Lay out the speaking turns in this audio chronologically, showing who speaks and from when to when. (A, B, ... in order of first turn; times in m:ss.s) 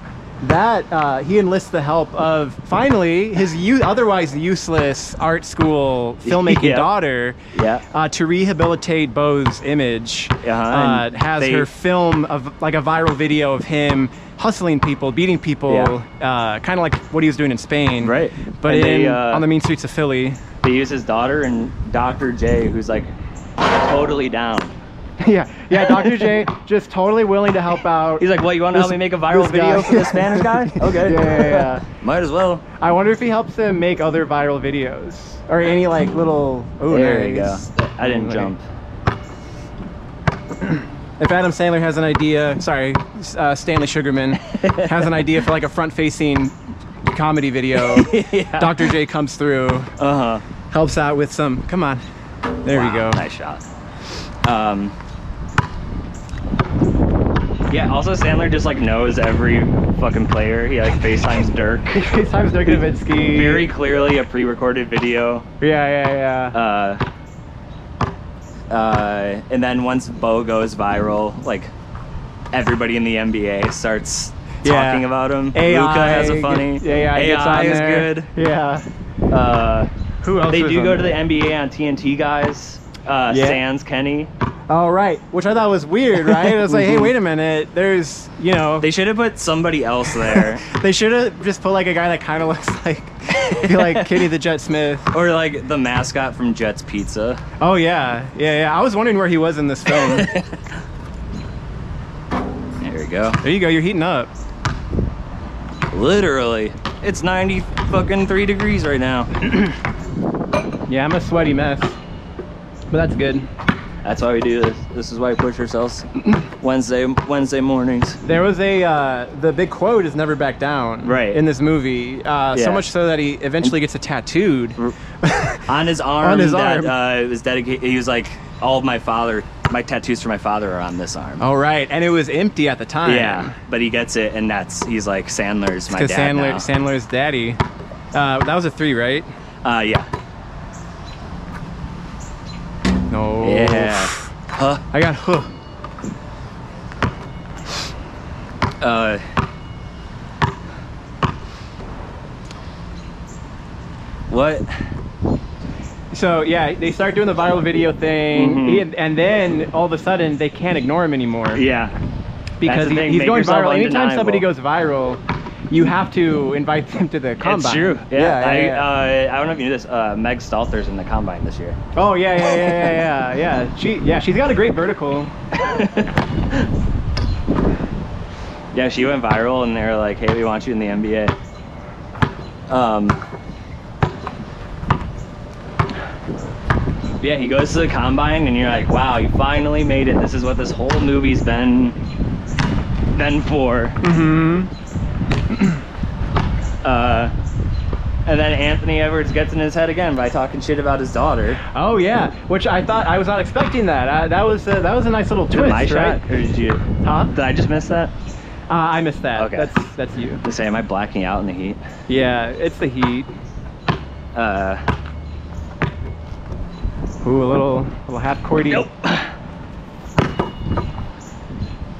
0:00.4-0:07.4 A
0:06.2-0:06.9 B
0:07.5-0:07.8 B
0:07.9-0:20.4 A
0:10.4-0:11.7 B
0:15.7-0:15.9 B
0:18.0-0:19.4 B
0:20.6-0:24.7 B
0:25.2-0:31.8 A
0:25.7-0:26.3 B
0:28.2-0:32.6 B
0:32.7-0:38.5 A
0:36.9-0:38.6 B
0:40.6-0:49.9 A
0:44.5-0:44.9 B
0:47.8-0:48.9 B
0:50.0-0:50.4 B
0:50.7-0:52.0 A
0:52.6-0:53.2 A
0:52.7-0:53.6 B
0:54.4-0:54.9 B
0:57.7-1:02.0 B
1:01.9-1:03.7 A
1:02.7-1:05.5 B
1:05.6-1:06.6 A
1:06.5-1:07.0 B
1:08.7-1:11.7 B
1:12.5-1:18.3 B
1:14.6-1:18.9 A
1:19.3-1:19.9 B
1:20.2-1:21.2 A
1:20.5-1:24.3 B
1:23.3-1:23.6 A
1:24.7-1:28.9 A
1:26.2-1:27.1 B
1:28.8-1:30.6 B
1:30.1-1:35.1 A
1:33.3-1:34.2 B
1:35.1-1:37.4 B
1:37.6-1:40.3 A
1:40.1-1:40.6 B
1:42.8-1:43.4 B
1:43.4-1:44.3 A
1:45.9-1:49.5 B
1:50.9-1:52.0 A
1:52.9-1:53.5 A
1:54.0-1:58.2 B
1:58.2-2:05.6 A
2:01.0-2:01.4 B
2:02.5-2:02.8 B
2:05.6-2:11.4 B
2:06.2-2:06.9 A
2:11.4-2:13.5 A
2:13.0-2:16.7 B
2:15.9-2:17.6 A
2:18.1-2:19.3 A
2:19.6-2:20.1 B
2:23.1-2:24.2 A
2:23.4-2:24.8 B
2:24.9-2:25.5 A
2:28.8-2:29.2 B
2:34.3-2:34.7 B
2:36.1-2:41.6 A
2:38.3-2:38.8 B
2:41.5-2:41.9 B
2:42.6-2:48.9 A
2:42.6-2:44.4 B
2:47.4-2:51.8 B
2:51.9-2:55.3 A
2:52.5-2:52.9 B
2:55.5-2:56.7 B
2:58.7-3:01.3 B
3:02.7-3:03.2 B
3:07.2-3:12.0 B
3:13.1-3:14.0 B
3:14.0-3:14.7 A
3:16.8-3:17.3 B
3:18.2-3:21.6 B
3:21.7-3:26.2 A
3:25.5-3:28.1 B
3:27.0-3:27.3 A
3:28.7-3:30.4 A
3:29.4-3:29.7 B
3:30.4-3:31.8 B
3:32.1-3:33.3 A
3:34.3-3:34.8 B
3:37.2-3:38.9 A
3:38.7-3:39.3 B